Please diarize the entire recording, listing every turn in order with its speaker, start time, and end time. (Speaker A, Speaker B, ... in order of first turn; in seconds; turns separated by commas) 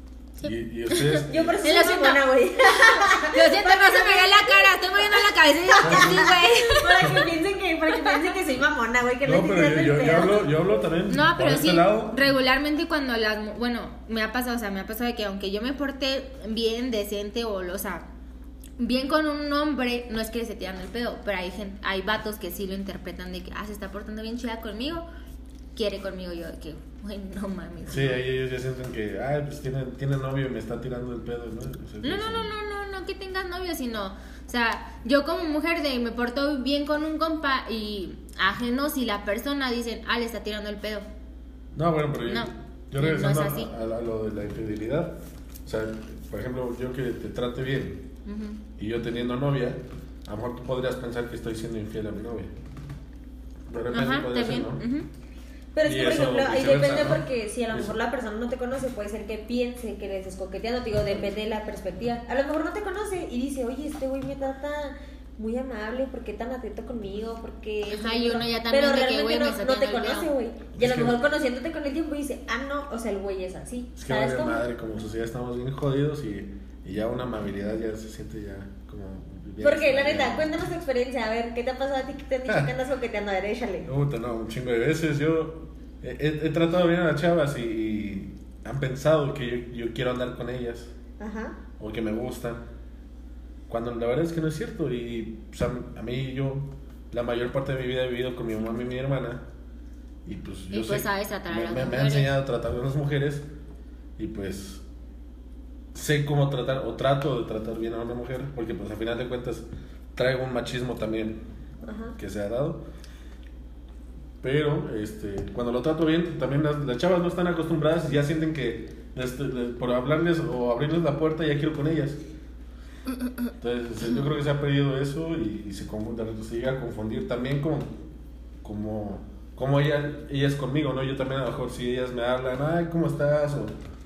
Speaker A: 0.4-7.2, Speaker B: 0.4-1.6, Speaker C: 1.2-10.5, Speaker B: 5.8-6.3, Speaker B: 9.2-12.2, Speaker A: 11.1-18.1, Speaker A: 18.8-25.1, Speaker A: 25.8-28.2, Speaker B: 27.9-32.5, Speaker A: 32.0-41.1, Speaker B: 41.8-48.1, Speaker A: 42.3-43.7, Speaker A: 48.3-48.6, Speaker B: 48.8-52.5, Speaker B: 53.7-54.8, Speaker A: 53.9-55.1, Speaker C: 55.7-74.7, Speaker B: 55.8-58.0, Speaker A: 67.9-70.3, Speaker B: 70.8-71.2, Speaker B: 74.0-80.5, Speaker C: 79.6-83.9, Speaker B: 83.8-90.9, Speaker C: 91.2-91.6, Speaker B: 91.8-92.7, Speaker B: 93.7-99.5, Speaker B: 100.2-103.5, Speaker A: 100.7-102.3, Speaker B: 104.2-104.8, Speaker B: 105.9-111.4, Speaker C: 111.8-112.2, Speaker B: 112.2-112.8, Speaker B: 114.4-122.2, Speaker B: 123.6-128.0, Speaker B: 128.6-133.8